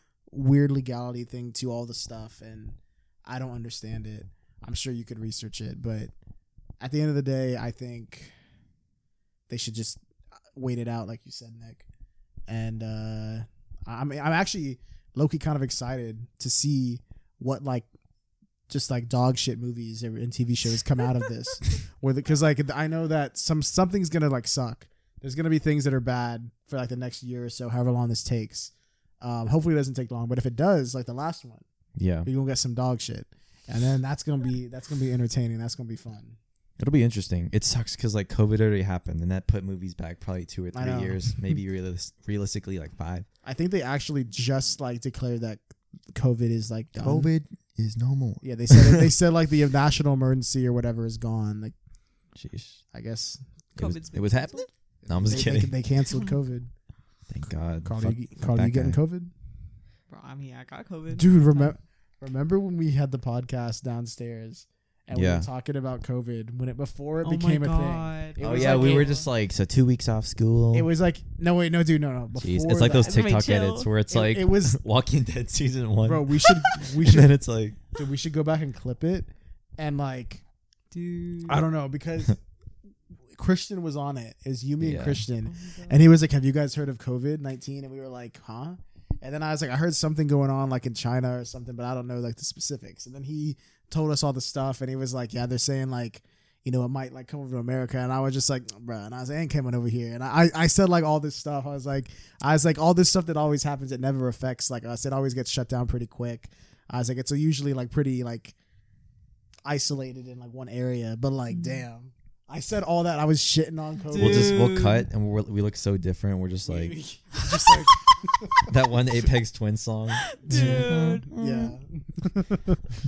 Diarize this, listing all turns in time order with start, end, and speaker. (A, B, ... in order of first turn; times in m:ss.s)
0:00.3-0:06.1 A
0:06.8-0:08.3 A
0:09.5-0:10.0 A
0:10.5-0:11.8 A
0:12.5-0:17.9 A
0:18.7-0:31.6 A
0:32.0-0:32.3 B
0:32.2-0:36.4 A
0:36.8-0:43.2 B
0:40.7-0:41.3 A
0:43.4-0:45.6 A
0:46.1-0:47.3 A
0:47.0-0:49.1 B
0:48.4-0:51.8 A
0:52.3-0:52.8 B
0:52.9-0:53.4 A
0:53.8-0:54.7 C
0:53.8-0:55.8 B
0:55.0-0:56.7 A
0:57.3-0:59.0 B
0:57.8-0:59.3 A
1:00.1-1:01.7 C
1:01.1-1:09.1 A
1:05.1-1:05.5 B
1:07.2-1:09.2 C
1:08.4-1:10.9 B
1:10.7-1:13.2 A
1:12.4-1:17.8 B
1:12.8-1:13.9 C
1:14.1-1:14.8 A
1:16.0-1:17.3 A
1:17.9-1:20.4 A
1:20.9-1:21.6 C
1:21.4-1:22.4 A
1:23.3-1:48.5 A
1:24.8-1:25.2 B
1:25.4-1:26.1 C
1:49.6-1:54.6 A
1:51.5-1:51.8 C
1:54.1-1:55.0 C
1:54.1-1:57.0 B
1:56.6-1:58.7 A
1:58.6-2:01.7 B
2:00.1-2:01.6 C
2:00.5-2:02.8 A